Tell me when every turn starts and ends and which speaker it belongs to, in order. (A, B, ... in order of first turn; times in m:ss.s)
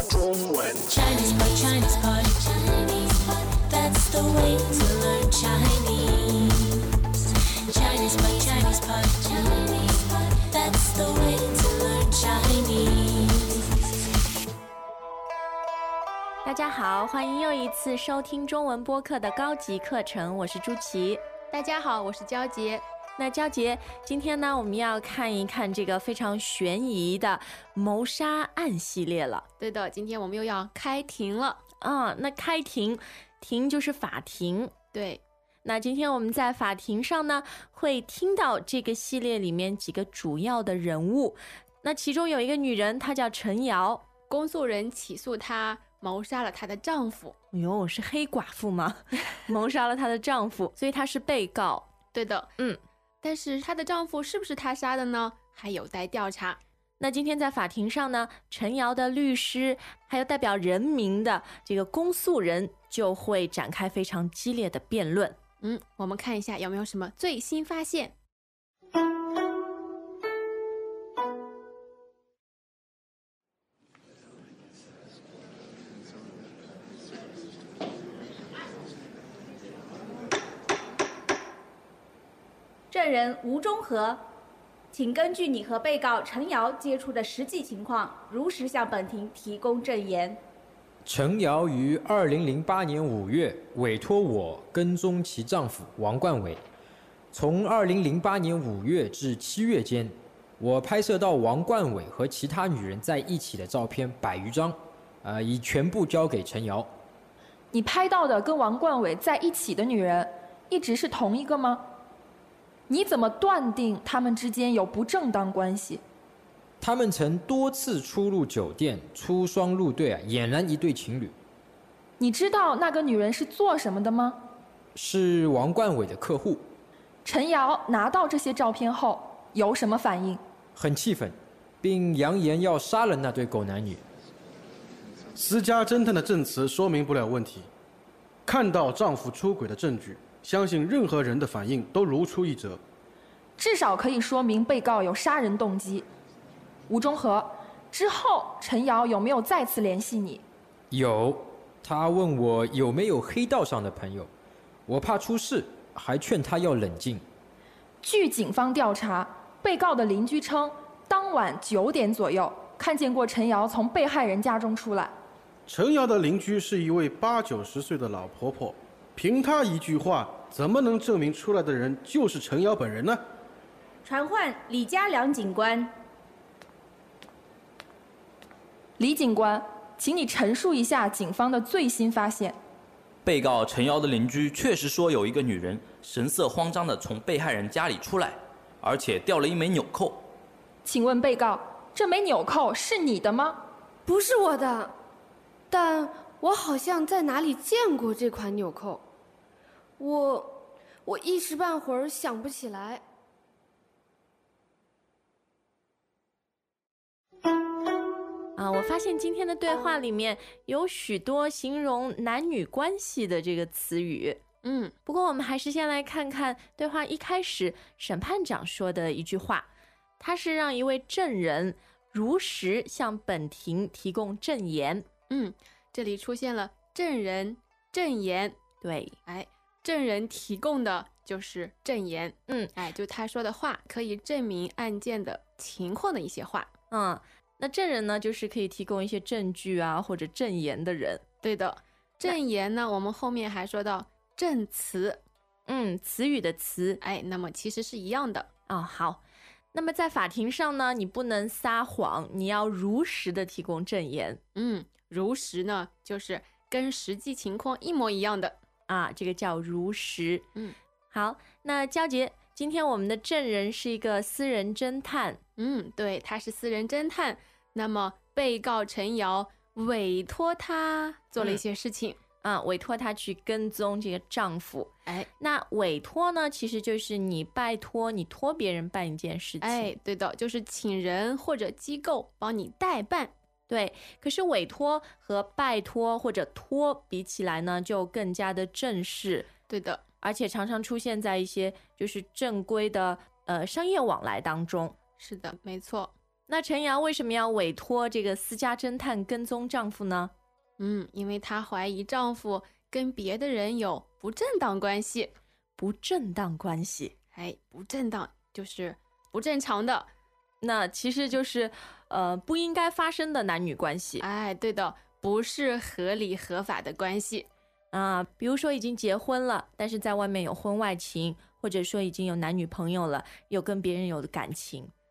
0:00.8-0:07.0 A
0:07.7-0:13.6 A
0:16.4-0:21.2 B
0:21.5-0:22.8 C
0:23.2-0:29.4 B
0:29.6-0:31.6 C
0:31.8-0:34.7 B
0:34.9-0:35.2 C
0:35.6-0:44.0 B
0:44.3-0:47.3 C
0:47.5-0:51.9 B
0:52.1-0:52.5 C
0:53.2-0:56.6 C
0:57.0-1:05.4 B
1:05.6-1:08.1 C
1:22.9-1:24.2 D
1:24.9-1:30.4 D
1:31.0-1:36.6 E
1:37.3-1:46.9 E
1:47.7-1:51.8 F
1:52.9-1:56.0 F
1:56.8-2:01.3 E
2:02.2-2:04.4 F
2:04.9-2:06.6 E
2:07.2-2:10.4 F
2:10.7-2:14.0 E
2:15.4-2:17.7 G
2:18.4-2:22.8 G
2:23.6-2:26.0 F
2:26.9-2:30.4 F
2:30.9-2:34.3 E
2:34.9-2:37.2 E
2:38.0-2:45.1 F
2:45.7-2:53.2 G
2:54.0-2:55.9 D
2:59.0-3:02.6 F
3:03.2-3:10.2 H
3:10.8-3:13.6 F
3:14.0-3:14.9 I
3:15.7-3:19.0 I
3:20.0-3:23.0 I
3:28.6-3:34.4 B
3:34.6-3:34.9 C
3:35.0-3:39.7 B
3:40.2-3:45.0 B
3:45.3-3:48.6 C
3:48.8-3:49.2 B
3:49.2-3:56.7 C
3:56.9-4:01.2 B
4:01.4-4:05.2 C
4:05.7-4:07.0 B
4:07.0-4:08.5 C
4:08.7-4:09.2 B
4:09.7-4:14.4 B
4:14.5-4:18.6 C
4:18.9-4:20.5 B
4:21.1-4:25.4 B
4:25.6-4:32.2 C
4:32.4-4:39.9 B
4:39.6-4:43.3 C
4:43.7-4:49.5 B
4:49.7-4:50.0 C
4:50.2-4:54.9 B
4:55.2-4:56.1 C
4:56.5-5:00.3 B
5:00.8-5:05.3 C
5:05.8-5:07.1 B
5:07.3-5:10.1 C
5:10.6-5:14.2 B
5:14.2-5:17.5 C
5:17.9-5:24.9 B